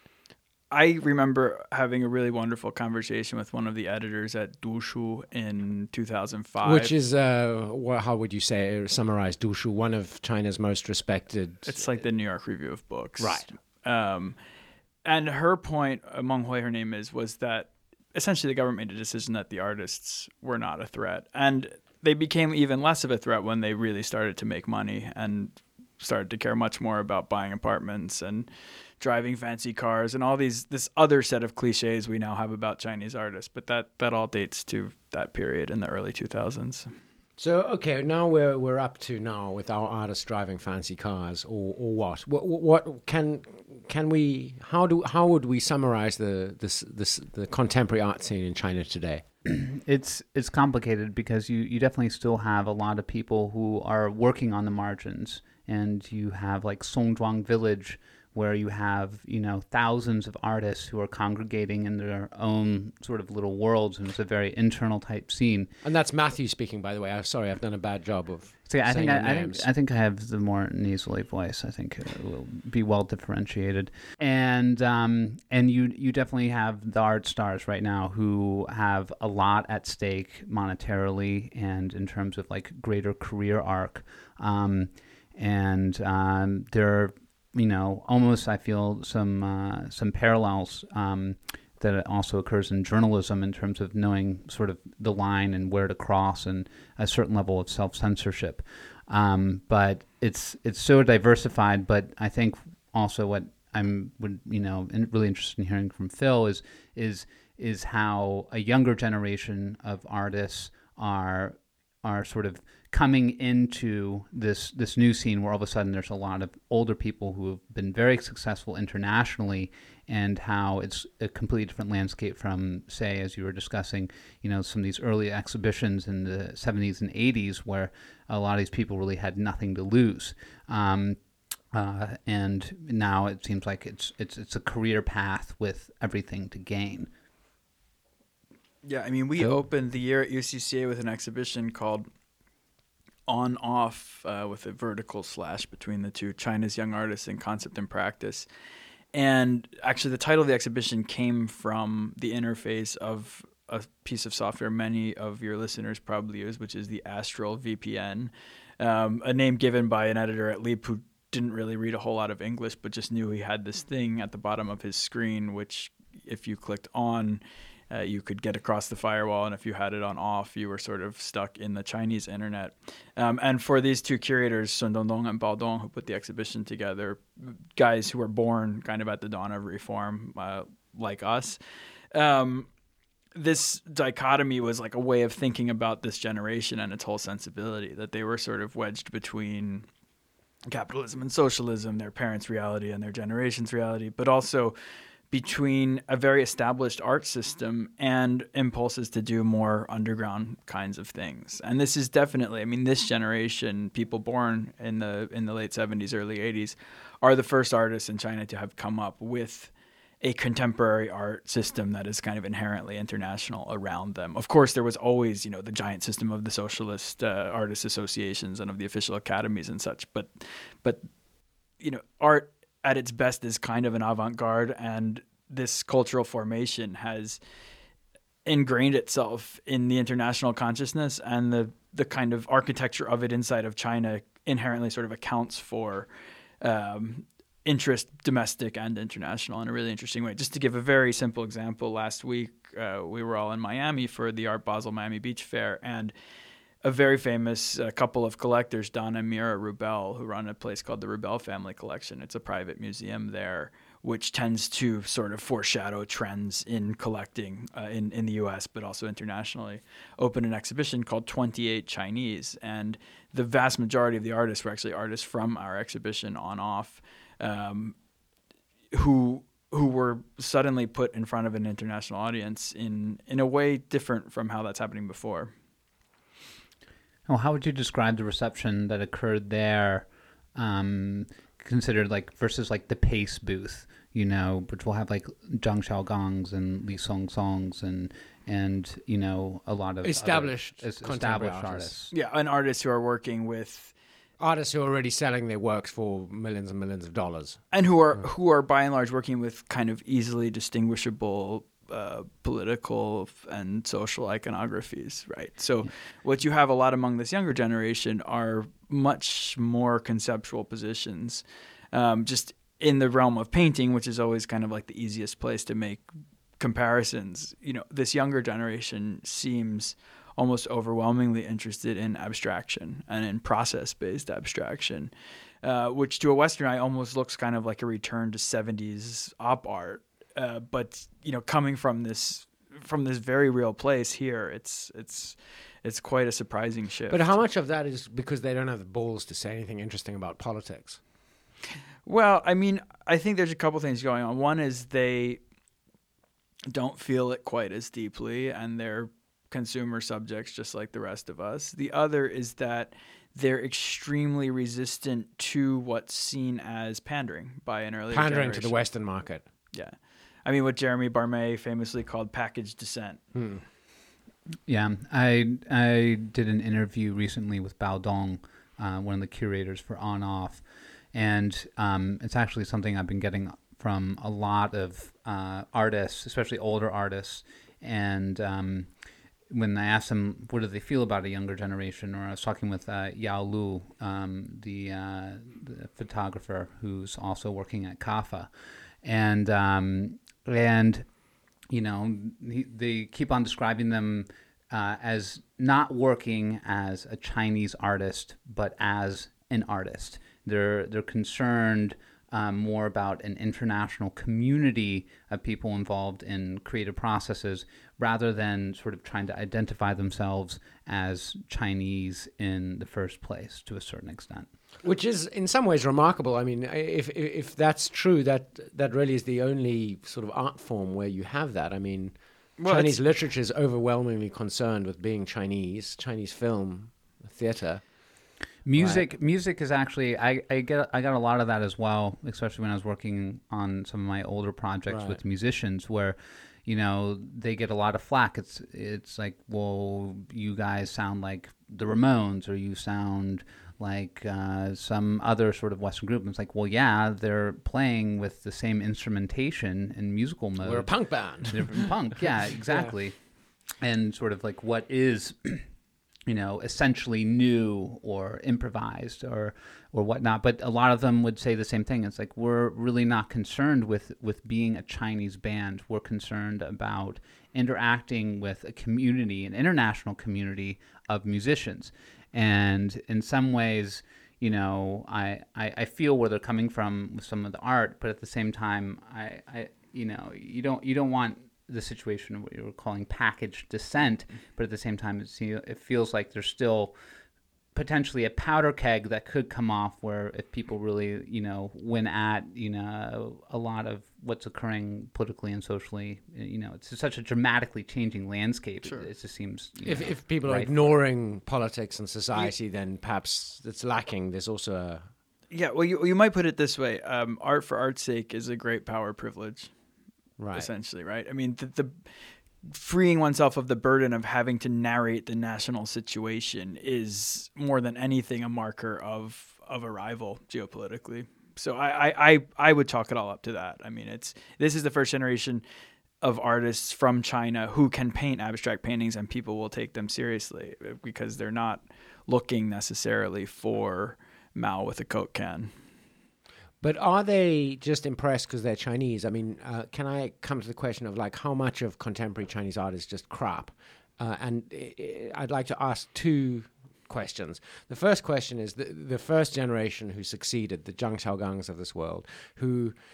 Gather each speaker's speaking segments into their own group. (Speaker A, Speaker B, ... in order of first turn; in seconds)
Speaker A: 0.7-6.9, 11.7-14.4, 15.1-28.5, 29.0-36.9, 138.8-142.1, 143.3-148.5, 149.1-181.6, 182.1-182.7, 183.3-189.9, 190.7-194.8, 195.3-221.1, 221.8-227.4, 228.5-236.1, 236.6-246.1, 246.8-267.9, 268.9-275.5, 292.1-293.9, 297.7-316.1, 316.6-325.1, 325.6-337.3, 342.1-345.4, 346.7-358.8, 359.7-363.2, 422.6-423.0, 505.5-509.7, 510.5-512.1, 512.6-525.6, 526.2-535.7
Speaker B: 6.6-11.8, 13.2-13.5, 37.4-49.2, 65.8-69.7, 290.0-292.0, 294.4-297.6, 337.1-341.0, 358.1-359.4, 363.4-363.6, 414.8-427.9, 428.8-429.1, 434.9-435.2, 450.6-452.9, 499.8-505.1, 510.4-510.7, 536.8-553.0
Speaker C: 49.5-65.7, 68.7-131.2, 131.7-137.1, 277.3-292.1, 364.7-370.6, 371.1-378.9, 379.5-388.5, 389.0-391.1, 391.7-414.5, 428.6-453.2, 453.8-455.7, 456.3-486.9, 487.8-500.9